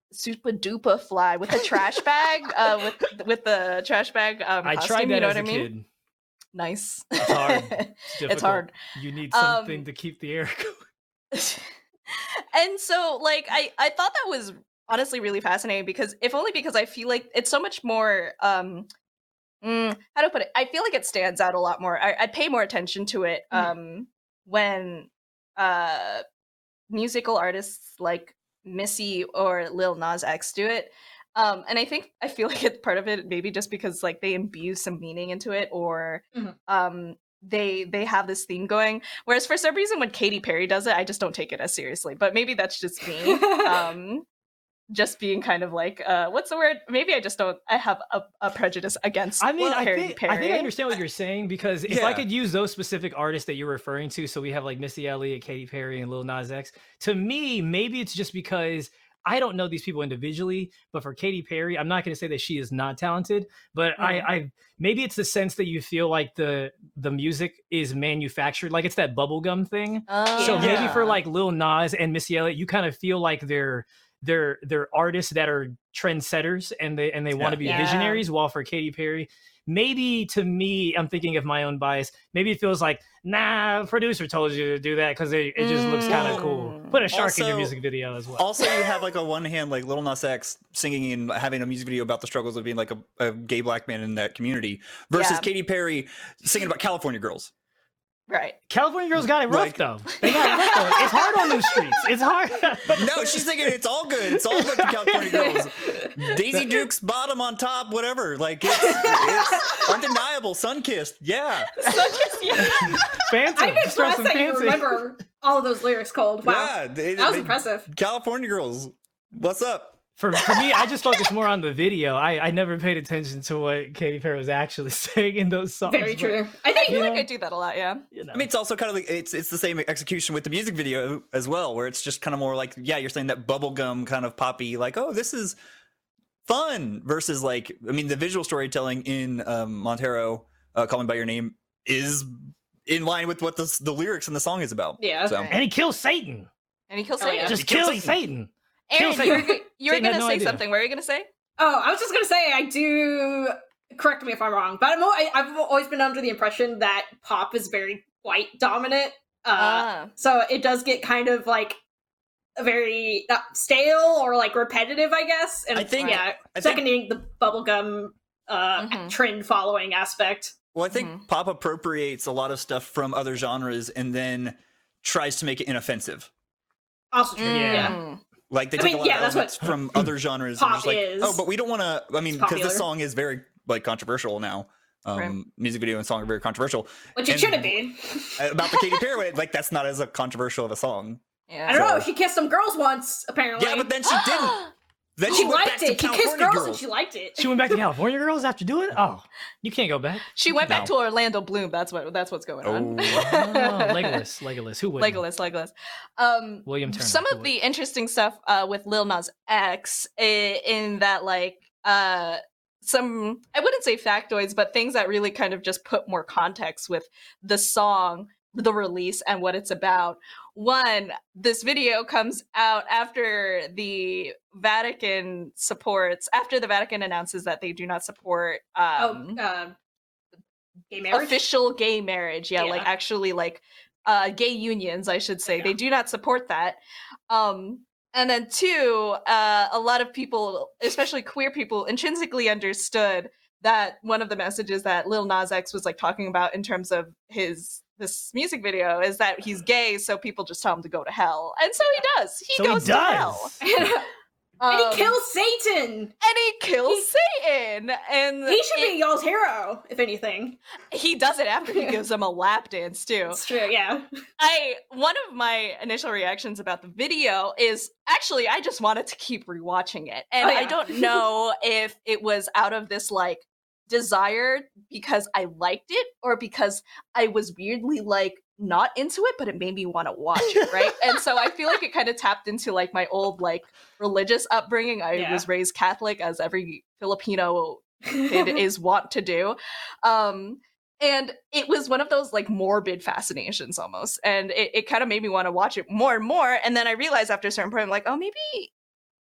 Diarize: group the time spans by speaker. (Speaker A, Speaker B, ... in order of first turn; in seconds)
Speaker A: 0.1-5.7, 6.5-8.7, 9.3-9.8, 11.3-18.9, 19.6-26.2, 26.9-44.2, 44.9-50.7, 64.0-64.3, 70.1-71.2, 77.6-78.2, 85.6-87.0, 95.1-95.5, 98.3-98.6, 100.2-100.9, 111.8-113.1, 126.7-128.1, 145.3-145.6, 146.9-147.6, 148.9-151.3, 159.6-160.1, 168.8-169.2, 170.9-171.2, 177.4-178.2, 191.5-191.8, 194.1-194.7, 200.3-204.2, 205.0-229.4, 231.1-253.6, 254.6-255.2, 256.2-259.0, 260.9-263.4, 264.4-298.7
Speaker B: 4.6-5.8, 7.2-10.8, 49.4-88.5, 98.7-103.7, 104.4-105.1, 112.6-115.0, 120.2-127.3, 128.1-128.5, 145.5-146.5, 147.4-150.6, 177.5-178.0, 197.4-200.3, 203.1-205.2, 206.6-207.5, 252.5-253.6
Speaker C: 43.2-43.9, 70.3-71.0, 100.2-101.1, 105.2-106.1, 108.7-109.9, 113.5-117.9, 125.9-127.0, 145.0-145.4, 147.2-147.6, 149.1-149.5, 151.6-161.8, 162.6-170.5, 177.1-178.0, 178.8-179.8, 180.6-181.4, 182.3-182.9, 187.2-189.0, 191.7-193.9, 195.2-197.5, 229.0-229.7, 230.9-231.4, 232.6-232.9, 235.5-235.7, 253.6-254.1, 254.7-256.1, 258.4-260.6, 263.3-264.0, 270.4-271.2, 285.1-285.4, 288.3-288.6
Speaker D: 51.9-52.2, 77.3-77.8, 86.1-86.4, 87.1-87.8, 88.4-97.5, 99.2-99.8, 102.9-111.8, 116.4-120.0, 128.3-135.6, 136.4-145.5, 147.5-148.2, 165.7-166.8, 170.7-176.3, 178.5-192.1, 193.6-194.6, 195.2-196.8, 200.7-200.9, 202.6-203.3